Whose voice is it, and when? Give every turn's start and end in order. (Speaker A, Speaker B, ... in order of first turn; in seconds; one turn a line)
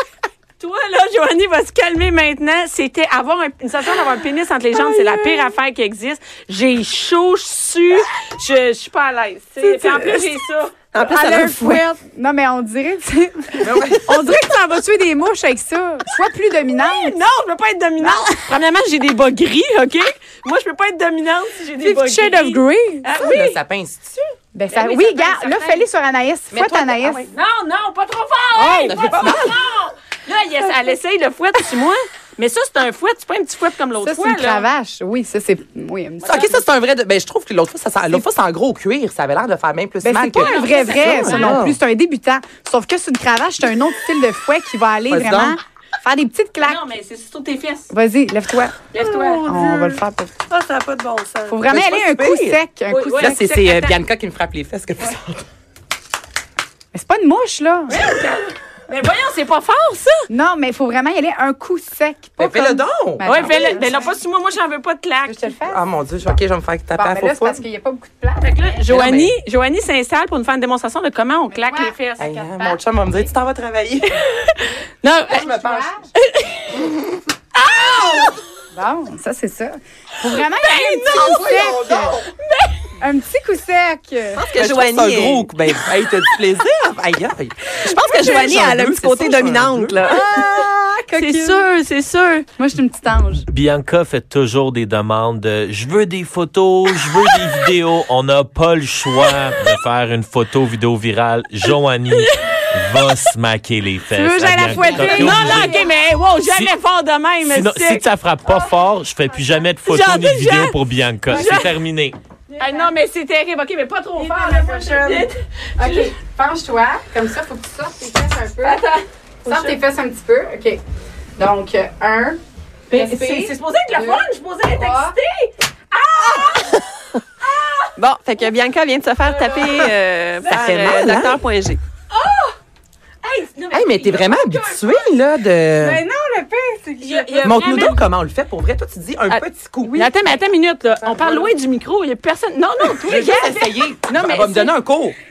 Speaker A: 0.6-10.7
Speaker B: 9.6-10.4
Speaker C: 10.9-11.8
Speaker B: 11.0-17.2
Speaker D: 13.6-14.3
Speaker A: 16.6-23.6
Speaker B: 18.0-18.5
Speaker B: 21.8-23.1
Speaker D: 23.1-24.3
Speaker B: 24.5-27.3
Speaker A: 24.7-25.9
Speaker D: 26.5-27.2
Speaker A: 27.1-34.7
Speaker B: 28.6-29.3
Speaker D: 28.9-29.5
Speaker B: 34.0-36.6
Speaker D: 36.2-41.8
Speaker A: 36.2-36.5
Speaker B: 40.0-46.8
Speaker A: 40.3-41.7
Speaker D: 45.1-45.6
Speaker A: 46.6-47.9
Speaker B: 47.9-50.3
Speaker A: 48.9-51.5
Speaker B: 51.5-53.5
Speaker D: 51.7-52.6
Speaker A: 52.9-54.0
Speaker D: 53.1-55.5
Speaker B: 56.9-58.0
Speaker A: 57.9-60.1
Speaker B: 60.3-64.2
Speaker D: 62.4-63.6
Speaker A: 63.2-65.5
Speaker B: 65.3-65.8
Speaker D: 65.7-67.6
Speaker B: 66.9-68.8
Speaker A: 68.4-72.2
Speaker D: 68.9-69.4
Speaker B: 71.5-72.8
Speaker D: 72.2-74.2
Speaker A: 74.3-75.5
Speaker D: 75.3-75.9
Speaker B: 75.3-76.1
Speaker A: 76.2-76.8
Speaker A: 77.6-78.3
Speaker B: 78.7-82.2
Speaker A: 80.6-81.6
Speaker D: 81.1-82.3
Speaker A: 82.4-82.8
Speaker B: 83.0-84.4
Speaker C: 84.3-85.5
Speaker D: 84.5-90.5
Speaker C: 87.8-90.3
Speaker B: 90.1-91.7
Speaker A: 91.1-92.5
Speaker B: 92.6-93.5
Speaker E: 93.5-106.7
Speaker A: 102.2-103.1
Speaker B: 104.1-105.9
Speaker A: 104.7-108.1
Speaker E: 107.4-112.2
Speaker A: 109.8-111.8
Speaker B: 111.3-111.7
Speaker B: 112.5-112.9
Speaker A: 112.6-116.2
Speaker B: 114.2-118.8
Speaker A: 118.6-119.8
Speaker B: 119.5-120.8
Speaker B: 121.4-122.4
Speaker A: 122.9-126.8
Speaker B: 122.9-125.2
Speaker C: 128.0-131.8
Speaker D: 130.5-131.4
Speaker A: 132.1-132.5
Speaker A: 133.2-135.1
Speaker D: 133.7-136.0
Speaker B: 135.8-138.0
Speaker A: 137.0-138.0
Speaker D: 137.4-140.0
Speaker A: 139.3-144.7
Speaker B: 139.8-140.4
Speaker B: 141.0-141.5
Speaker D: 143.0-145.2
Speaker B: 143.2-143.5